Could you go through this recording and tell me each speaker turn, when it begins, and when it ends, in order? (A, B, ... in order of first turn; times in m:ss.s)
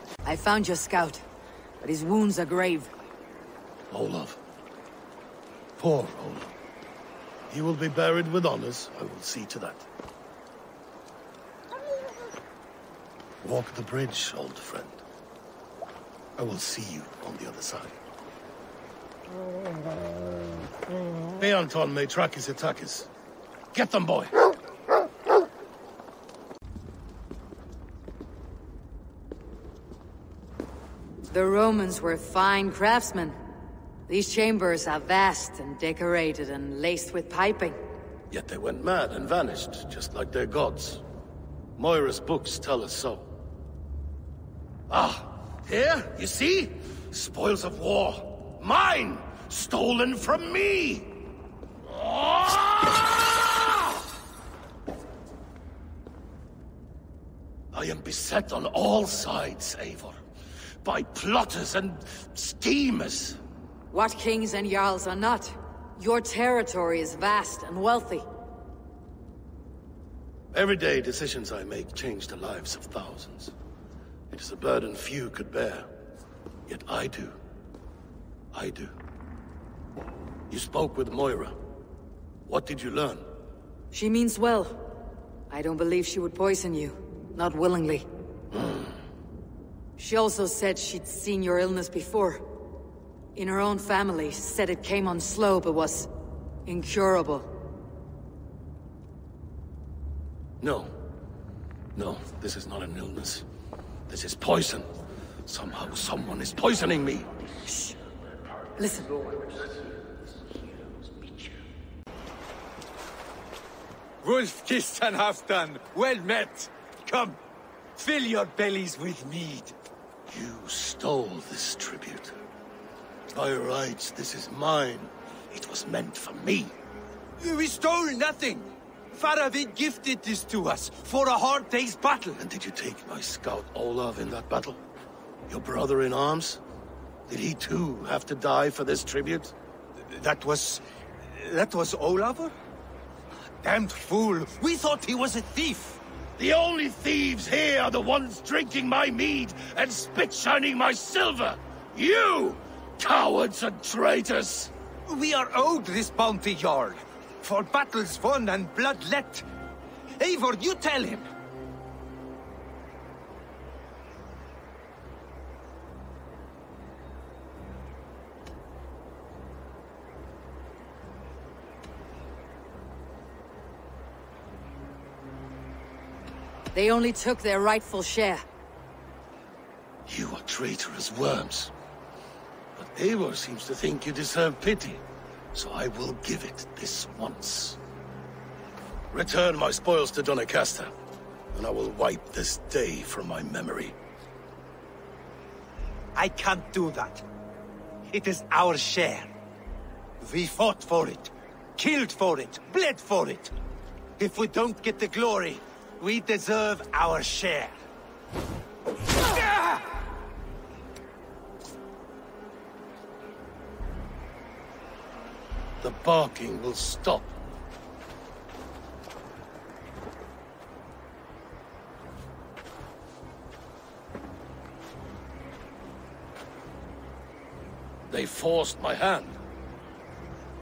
0:00.2-0:01.2 A
0:01.8-0:02.9 A
0:03.9-0:04.4 B
0:05.8-0:06.5 B
0:07.5-0:09.8 B
0:13.4-0:15.0 B
0:16.4-0:17.9 B
0:21.4-0:23.1 B
0:23.7-0:24.3 B
0:31.3-0:33.4 A
0:34.1-0:37.8 A
0:38.3-0:41.0 B
0:41.8-0:43.3 B
0:44.9-0:51.3 B
0:51.8-0:53.0 B
0:57.7-1:00.2 B
1:00.8-1:03.4 B
1:03.9-1:08.2 A
1:10.5-1:13.5 B
1:14.3-1:15.9 B
1:16.7-1:17.4 B
1:18.5-1:18.9 B
1:20.5-1:21.6 B
1:22.4-1:23.2 B
1:23.9-1:24.9 A
1:25.5-1:28.0 A
1:30.0-1:32.4 A
1:33.4-1:36.1 A
1:36.6-1:37.5 A
1:40.6-1:40.9 B
1:41.9-1:43.4 B
1:44.1-1:44.9 B
1:45.5-1:47.3 B
1:47.7-1:48.0 A
1:48.8-1:49.2 A
1:54.2-1:57.4 C
1:58.0-1:59.7 C
2:00.3-2:02.3 B
2:03.3-2:06.7 B
2:07.4-2:12.4 C
2:12.4-2:14.8 B
2:15.5-2:16.6 B
2:17.3-2:19.5 B
2:20.1-2:22.5 C
2:23.6-2:26.0 C
2:26.4-2:34.7 B
2:35.1-2:39.4 C
2:40.2-2:41.2 C
2:56.7-2:58.4 A
3:00.1-3:01.7 B
3:02.8-3:05.0 B
3:05.5-3:07.8 B
3:09.1-3:10.9 B
3:11.5-3:13.9 B
3:16.1-3:17.2 C
3:18.1-3:19.3 C
3:20.2-3:23.5 C
3:24.2-3:27.7 C
3:35.8-3:37.3 B
3:48.1-3:49.4 B